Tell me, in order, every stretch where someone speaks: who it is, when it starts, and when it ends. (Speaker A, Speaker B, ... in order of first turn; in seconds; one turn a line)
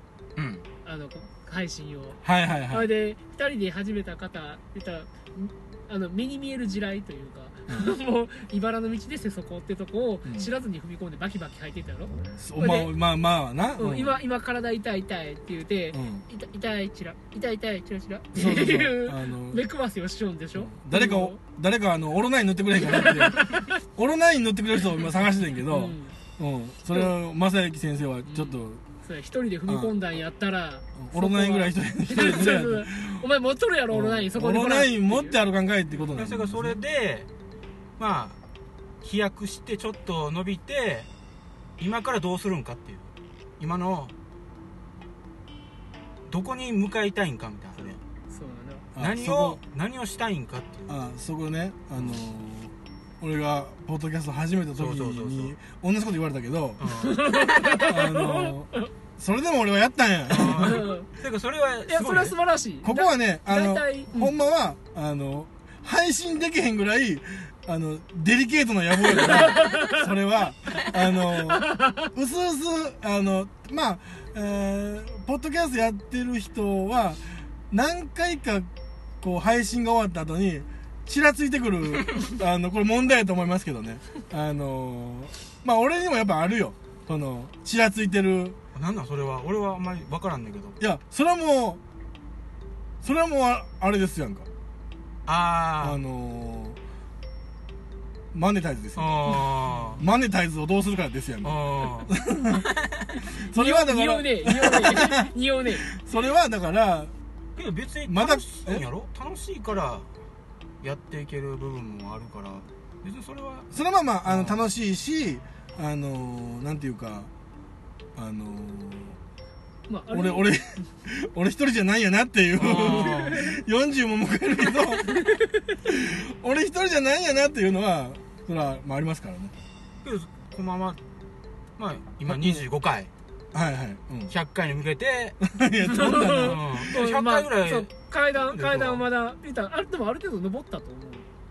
Speaker A: 0.4-0.7
Speaker B: 0.8-12.9
Speaker C: 2.2-2.9
Speaker C: 10.2-10.5
Speaker C: 12.4-14.2
Speaker B: 13.8-21.4
Speaker C: 15.9-16.2
Speaker C: 18.3-19.6
Speaker C: 20.6-28.8
Speaker B: 22.8-23.7
Speaker B: 25.7-26.2
Speaker B: 28.3-35.4
Speaker C: 29.7-30.0
Speaker C: 31.0-33.3
Speaker C: 33.9-36.8
Speaker A: 36.1-37.3
Speaker A: 38.0-38.4
Speaker A: 39.0-41.1
Speaker A: 41.8-44.1
Speaker A: 46.3-48.0
Speaker B: 47.8-48.9
Speaker C: 49.0-49.6
Speaker A: 49.0-51.0
Speaker C: 50.9-56.9
Speaker A: 54.8-55.5
Speaker A: 56.8-57.5
Speaker B: 56.9-58.9
Speaker C: 57.8-60.9
Speaker A: 60.3-62.4
Speaker B: 60.4-61.1
Speaker B: 61.9-64.4
Speaker C: 62.8-78.7
Speaker B: 69.1-70.0
Speaker B: 71.5-72.0
Speaker C: 79.2-88.6
Speaker A: 88.7-90.8
Speaker C: 90.8-91.8
Speaker C: 93.0-94.5
Speaker A: 95.3-96.0
Speaker C: 95.8-96.8
Speaker C: 98.3-102.7
Speaker A: 99.0-100.0
Speaker A: 101.4-103.2
Speaker C: 103.4-105.3
Speaker B: 103.5-105.8
Speaker C: 105.9-107.1
Speaker A: 107.6-110.1
Speaker C: 108.1-108.9
Speaker A: 110.8-113.7
Speaker C: 113.7-117.3
Speaker A: 114.3-114.7
Speaker C: 118.2-119.2
Speaker B: 119.9-120.5
Speaker C: 120.1-125.2
Speaker A: 122.6-123.5
Speaker B: 122.9-123.5
Speaker B: 125.1-125.4
Speaker C: 125.8-129.5
Speaker A: 130.0-131.0
Speaker A: 131.8-133.1
Speaker C: 132.3-132.6
Speaker C: 133.5-134.3
Speaker A: 134.3-135.4
Speaker C: 135.4-136.7
Speaker B: 135.8-141.3
Speaker A: 136.4-139.1